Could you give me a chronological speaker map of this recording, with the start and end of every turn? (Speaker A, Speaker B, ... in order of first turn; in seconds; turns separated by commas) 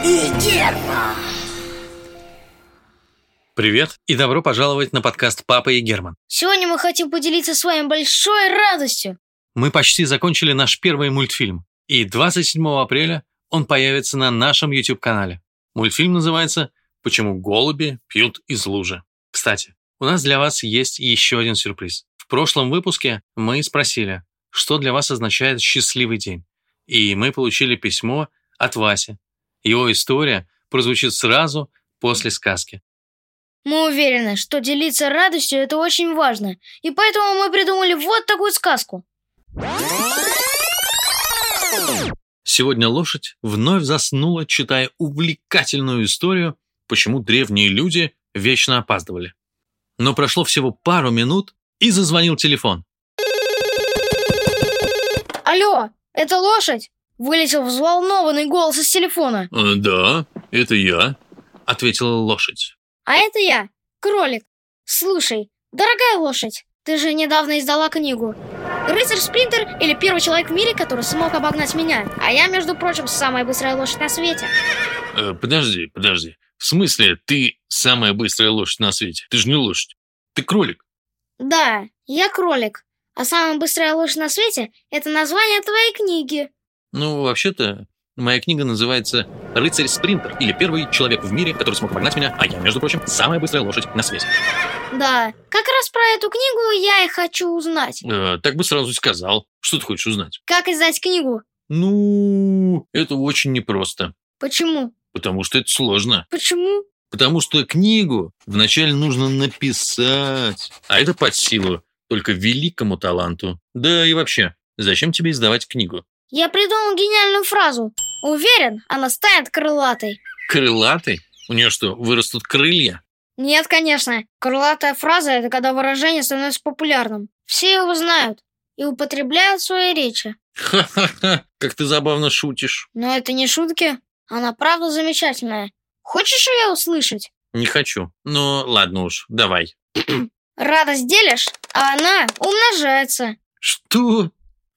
Speaker A: 3.6-6.2, Speaker B: 6.3-9.2, Speaker A: 9.6-32.8, Speaker B: 33.6-39.0, Speaker A: 42.5-49.3, Speaker A: 50.0-52.8, Speaker B: 55.5-59.5, Speaker A: 59.5-62.7, Speaker B: 63.1-74.5, Speaker A: 75.1-80.8, Speaker B: 81.4-86.5, Speaker A: 86.9-94.3, Speaker B: 94.9-98.0, Speaker A: 98.0-100.4, Speaker B: 100.5-101.4, Speaker A: 101.7-104.1, Speaker B: 104.4-104.9, Speaker A: 105.1-106.3, Speaker B: 106.3-106.8, Speaker A: 107.1-116.0, Speaker B: 116.3-120.2, Speaker A: 120.5-123.0, Speaker B: 123.4-130.4, Speaker A: 130.6-132.9, Speaker B: 132.9-137.3, Speaker A: 137.5-139.8, Speaker B: 140.6-143.4, Speaker A: 143.6-144.3